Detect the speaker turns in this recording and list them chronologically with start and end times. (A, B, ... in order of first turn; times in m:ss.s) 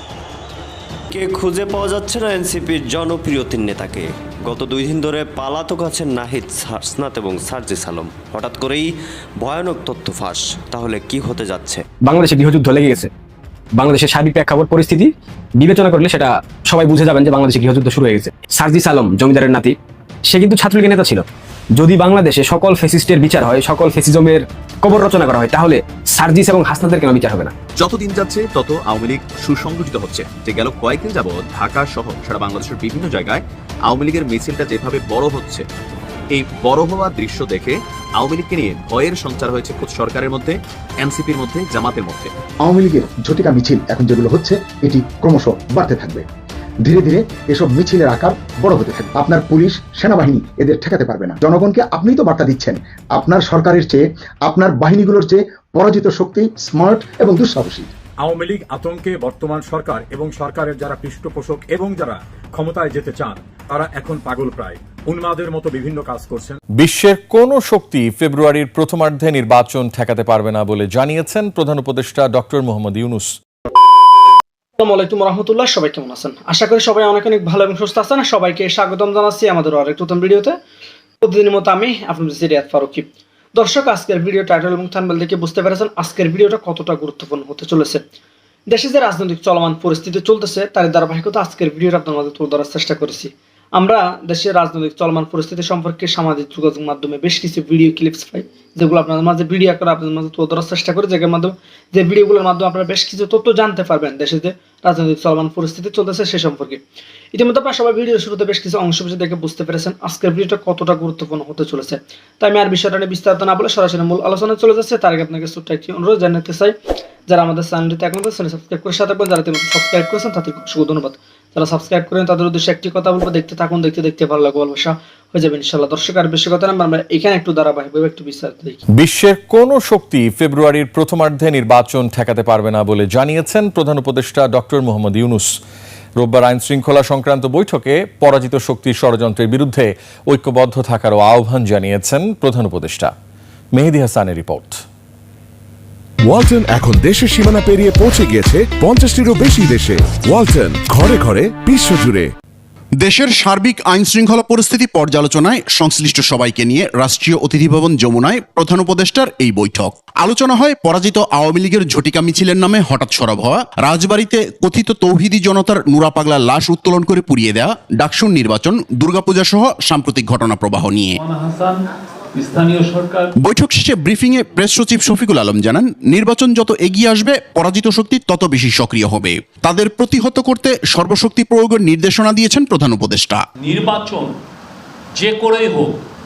0:01.1-0:11.8 A
0:12.0-0:13.1 B
0:13.8-0:19.7 B
0:20.3-0:21.2 B
0:21.8-0:27.5 B
0:27.8-0:35.6 C
0:36.3-0:42.3 C
0:42.6-0:46.2 D
0:46.8-0:57.9 D
0:58.2-1:06.6 E
1:06.8-1:13.3 F
1:14.8-1:20.6 G
1:21.2-1:28.0 G
1:28.7-1:56.7 G
1:57.3-2:08.8 G
2:09.0-2:15.6 F
2:16.2-2:23.1 F
2:23.7-2:24.8 F
2:26.2-2:32.3 H
2:33.0-2:51.2 I
2:51.2-2:51.8 J
2:52.3-2:53.3 J
2:53.4-3:03.4 I
3:03.6-3:04.3 J
3:05.1-3:06.0 J